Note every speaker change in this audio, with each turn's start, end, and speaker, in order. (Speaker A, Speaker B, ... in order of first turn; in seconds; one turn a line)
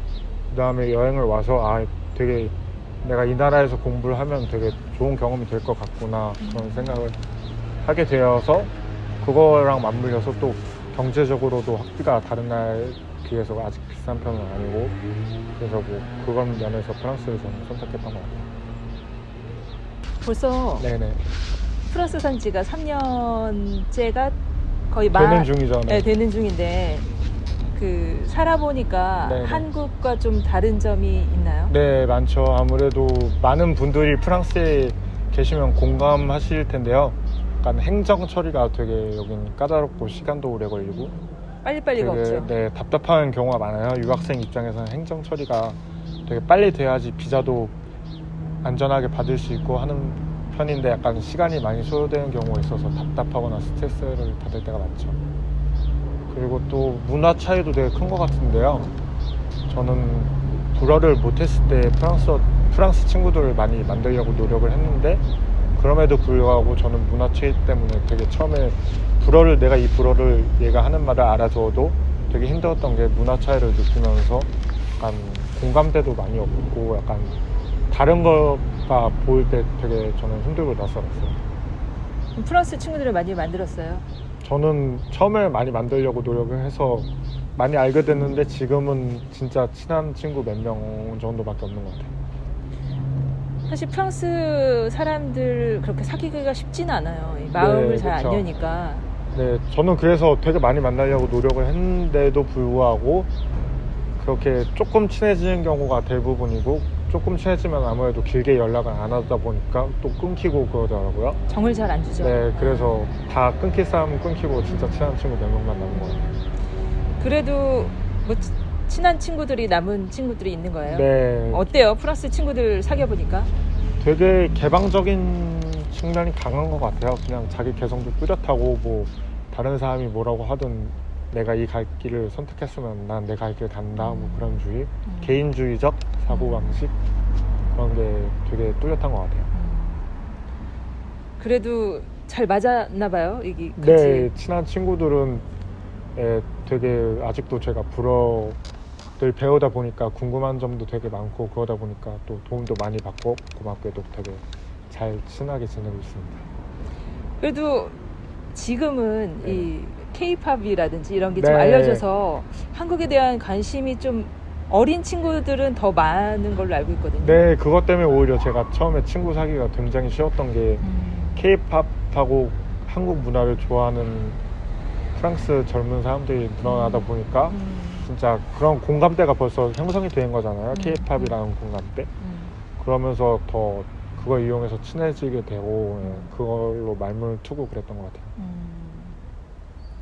Speaker A: 0.5-7.2
Speaker B: 6.4-7.0
Speaker A: 7.8-15.0
Speaker A: 15.6-18.4
Speaker B: 20.2-20.9
Speaker A: 20.8-21.2
Speaker B: 21.9-24.4
Speaker B: 24.9-27.1
Speaker A: 25.1-26.1
Speaker B: 27.7-31.7
Speaker A: 29.2-29.7
Speaker A: 31.7-41.1
Speaker B: 41.6-42.5
Speaker A: 42.0-47.8
Speaker A: 48.6-55.2
Speaker A: 56.3-58.9
Speaker A: 59.7-65.2
Speaker A: 65.8-77.4
Speaker A: 77.9-81.4
Speaker B: 82.3-84.1
Speaker A: 84.4-92.1
Speaker B: 93.7-99.1
Speaker A: 97.5-98.5
Speaker A: 99.3-103.3
Speaker A: 104.2-111.4
Speaker B: 111.5-113.1
Speaker A: 112.2-116.3
Speaker B: 117.2-123.5
Speaker A: 120.8-121.7
Speaker A: 124.0-136.9
Speaker B: 134.0-135.4
Speaker B: 136.3-136.7
Speaker A: 137.7-139.5
Speaker B: 139.5-140.1
Speaker B: 141.4-144.3
Speaker A: 143.8-145.4
Speaker A: 146.2-148.6
Speaker A: 149.2-156.4
Speaker B: 157.4-158.0
Speaker B: 158.5-167.4
Speaker A: 159.4-159.7
Speaker A: 161.3-162.1
Speaker A: 167.2-170.8
Speaker B: 170.8-171.4
Speaker A: 171.4-174.4
Speaker A: 175.2-182.1
Speaker B: 176.6-178.1
Speaker B: 180.7-181.4
Speaker B: 182.2-182.6
Speaker A: 182.8-188.3
Speaker B: 186.0-186.3
Speaker B: 188.4-189.2